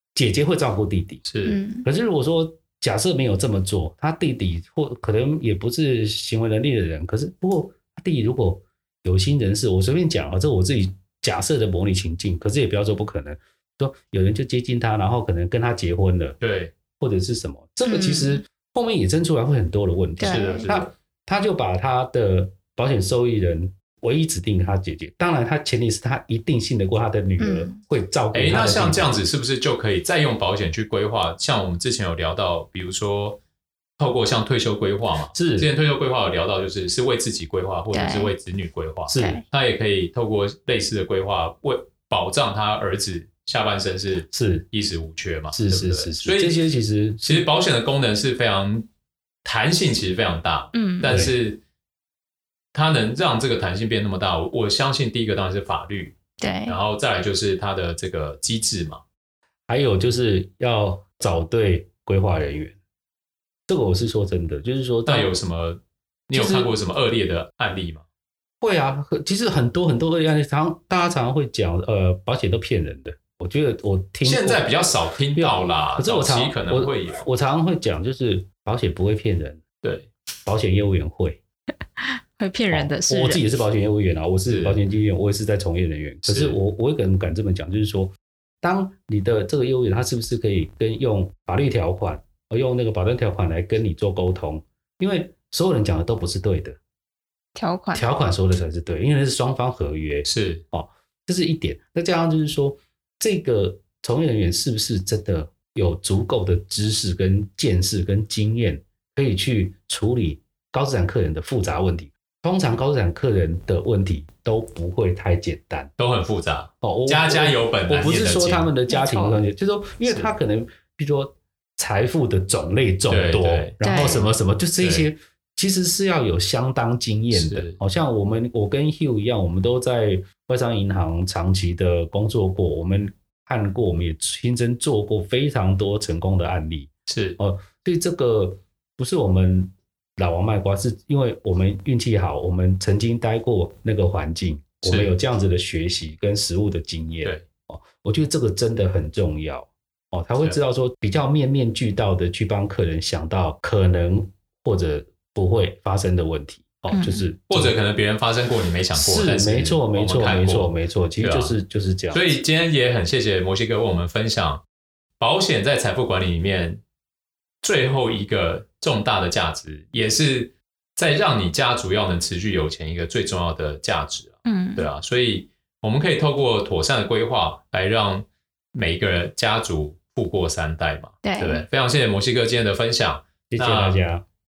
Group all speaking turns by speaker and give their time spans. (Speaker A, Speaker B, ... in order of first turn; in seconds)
Speaker A: 0.1-1.2, 1.8-16.4, 17.0-29.1, 35.3-35.7, 39.1-39.4, 44.3-44.7, 45.5-47.5, 51.0-51.3, 59.7-62.8, 63.7-65.3, 66.3-66.7, 68.6-74.7, 75.3-79.6, 80.5-81.4, 82.7-96.8, 97.9-115.9, 116.8-157.8, 158.9-162.4, 183.5-184.2
Speaker B: 1.2-1.6, 16.4-16.7, 20.2-20.9, 28.3-33.4, 34.0-46.6, 47.2-48.9, 49.4-51.6, 52.7-59.0, 65.0-68.0, 74.2-77.2, 79.8-80.1, 84.5-84.8, 86.2-86.6, 100.2-100.6, 116.0-118.7, 120.0-120.3, 123.1-123.8, 124.8-125.1, 127.3-127.8, 137.1-137.4, 144.8-145.1, 157.5-161.6, 162.1-164.6, 165.2-166.8, 167.6-184.0
Speaker C: 1.4-1.9, 17.9-18.4, 20.2-20.7, 27.4-27.8, 37.9-38.3, 39.1-39.4, 50.7-51.1, 56.4-56.8, 82.0-83.4, 97.5-98.0, 118.9-119.4, 123.8-124.3, 156.9-157.2, 174.4-174.9, 181.2-181.7